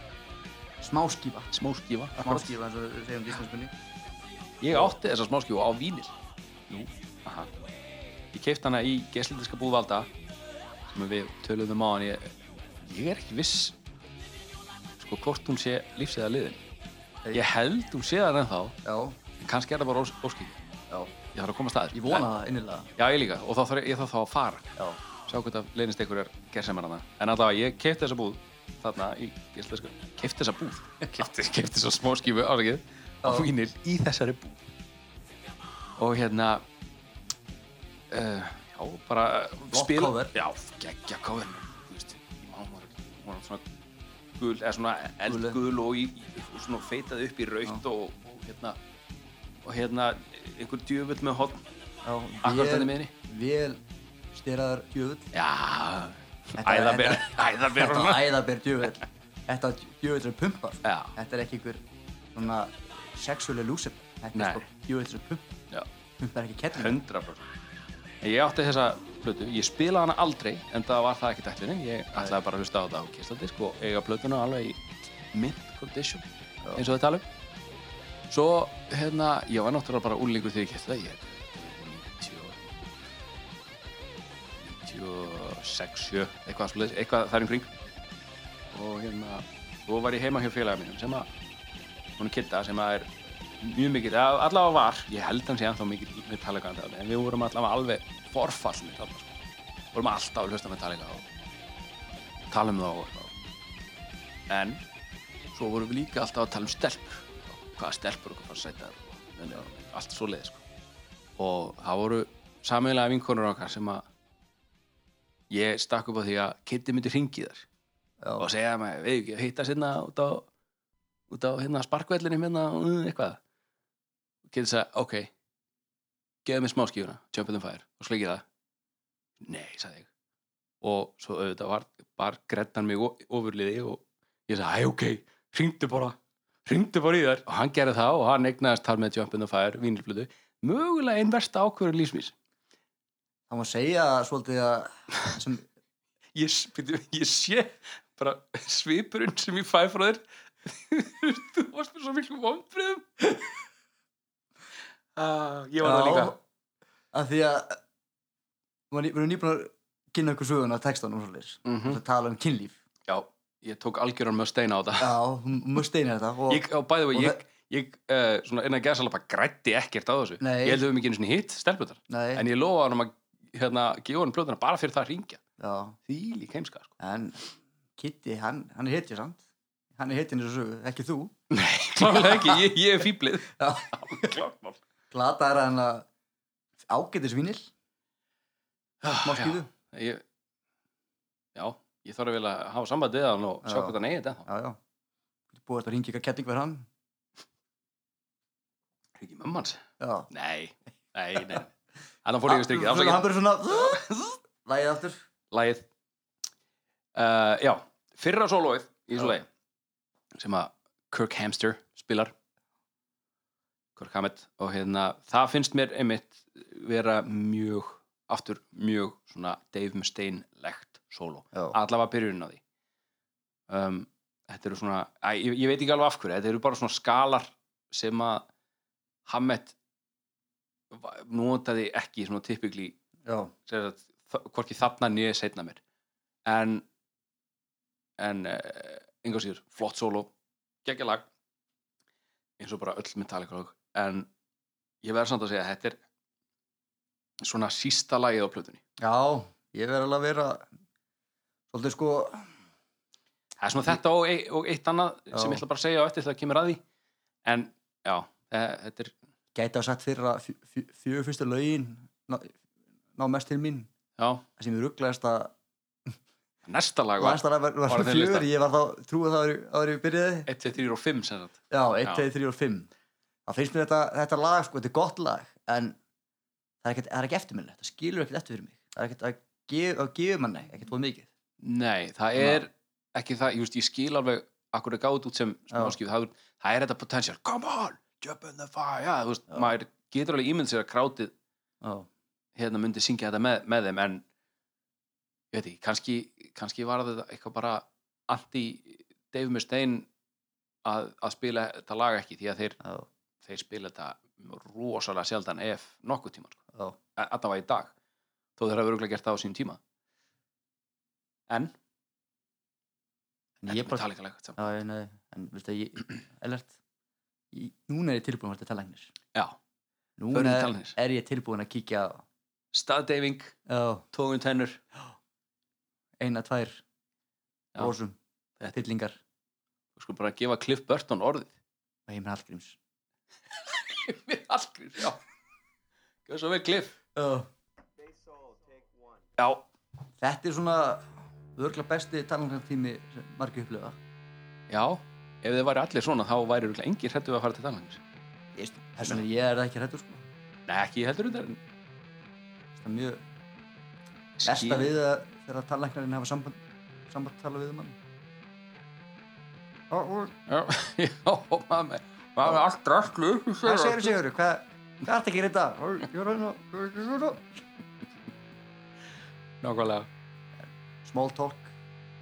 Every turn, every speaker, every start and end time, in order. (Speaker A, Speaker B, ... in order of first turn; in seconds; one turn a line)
Speaker A: 0.8-1.5
Speaker B: 1.5-2.5
Speaker A: 2.1-3.7
Speaker B: 4.6-6.1
Speaker B: 6.7-7.5
Speaker B: 8.3-10.1
Speaker B: 10.9-13.8
Speaker B: 15.0-16.6
Speaker B: 17.3-18.8
Speaker A: 18.8-19.2
Speaker B: 19.4-20.6
Speaker B: 21.3-22.3
Speaker A: 21.9-22.9
Speaker B: 23.0-24.7
Speaker B: 25.3-34.6
Speaker A: 33.2-33.5
Speaker B: 36.0-36.6
Speaker B: 38.1-43.6
Speaker A: 39.7-40.3
Speaker B: 44.4-48.8
Speaker A: 45.2-45.6
Speaker B: 49.6-51.6
Speaker A: 52.0-55.3
Speaker B: 52.4-53.1
Speaker B: 55.3-58.3
Speaker A: 56.6-61.8
Speaker B: 60.8-61.1
Speaker A: 62.3-65.5
Speaker B: 64.3-64.6
Speaker A: 66.2-67.0
Speaker B: 66.7-67.5
Speaker B: 68.2-74.8
Speaker B: 75.3-77.2
Speaker B: 78.3-82.6
Speaker B: 84.6-87.7
Speaker B: 88.7-91.3
Speaker B: 92.2-99.3
Speaker B: 99.9-101.2
Speaker B: 102.5-103.3
Speaker B: 104.5-104.8
Speaker B: 105.5-110.6
Speaker B: 111.4-114.0
Speaker B: 115.5-117.7
Speaker A: 118.2-118.5
Speaker B: 118.4-120.5
Speaker B: 121.3-123.4
Speaker B: 124.5-125.3
Speaker B: 126.4-128.4
Speaker B: 129.4-130.1
Speaker B: 130.8-142.3
Speaker A: 143.5-145.7
Speaker B: 146.3-153.2
Speaker B: 155.2-156.3
Speaker A: 155.8-156.3
Speaker A: 157.1-157.8
Speaker A: 158.9-162.8
Speaker B: 161.6-162.0
Speaker B: 163.1-165.2
Speaker A: 165.0-167.4
Speaker B: 166.5-175.4
Speaker A: 170.4-170.8
Speaker A: 172.1-172.4
Speaker A: 175.6-176.0
Speaker B: 176.1-176.9
Speaker A: 177.0-177.4
Speaker A: 178.0-179.4
Speaker A: 179.9-181.3
Speaker B: 181.5-184.8
Speaker A: 182.0-182.6
Speaker A: 183.6-184.3
Speaker A: 185.1-186.1
Speaker A: 186.8-187.7
Speaker B: 189.0-190.2
Speaker A: 189.2-189.7
Speaker B: 191.5-194.4
Speaker A: 193.6-194.8
Speaker A: 195.5-196.9
Speaker B: 199.2-201.7
Speaker A: 200.0-200.3
Speaker B: 202.2-203.3
Speaker A: 202.5-205.2
Speaker B: 203.8-204.1
Speaker B: 205.5-205.8
Speaker B: 207.1-209.5
Speaker B: 210.3-212.3
Speaker B: 213.9-222.6
Speaker B: 223.7-228.5
Speaker B: 229.2-229.7
Speaker B: 230.9-233.0
Speaker A: 233.2-233.5
Speaker B: 233.7-235.8
Speaker B: 236.4-236.8
Speaker B: 238.2-240.3
Speaker B: 240.8-241.2
Speaker B: 242.6-244.3
Speaker B: 245.0-246.0
Speaker B: 247.4-248.8
Speaker A: 249.0-250.6
Speaker A: 251.7-252.5
Speaker B: 253.6-256.8
Speaker A: 255.3-255.6
Speaker B: 257.4-259.1
Speaker A: 259.5-262.6
Speaker A: 263.1-263.9
Speaker B: 264.2-264.4
Speaker A: 264.6-265.5
Speaker B: 266.6-268.5
Speaker A: 267.2-270.5
Speaker B: 270.5-272.3
Speaker A: 271.7-272.9
Speaker A: 273.4-276.0
Speaker A: 276.8-281.3
Speaker B: 281.6-291.3
Speaker A: 282.4-282.6
Speaker A: 291.8-292.1
Speaker B: 292.6-294.2
Speaker B: 295.5-300.1
Speaker B: 300.8-302.8
Speaker B: 303.4-306.6
Speaker B: 307.1-307.9
Speaker B: 308.6-309.8
Speaker A: 313.6-314.0
Speaker B: 313.7-314.6
Speaker A: 314.6-316.7
Speaker A: 317.5-319.1
Speaker A: 320.2-322.2
Speaker B: 320.3-320.9
Speaker B: 322.7-323.5
Speaker A: 323.7-324.0
Speaker B: 324.1-324.8
Speaker A: 326.2-326.8
Speaker A: 327.8-328.2
Speaker A: 328.7-329.2
Speaker B: 329.9-331.5
Speaker A: 332.1-332.8
Speaker B: 333.6-335.2
Speaker B: 336.2-336.9
Speaker A: 337.1-337.5
Speaker B: 339.4-339.6
Speaker A: 340.2-344.0
Speaker B: 344.7-348.0
Speaker A: 348.5-350.2
Speaker B: 350.7-351.6
Speaker A: 352.8-353.2
Speaker B: 354.4-354.9
Speaker A: 354.4-357.9
Speaker A: 359.9-360.3
Speaker B: 360.5-364.1
Speaker A: 363.6-367.6
Speaker B: 369.6-370.1
Speaker A: 370.6-371.7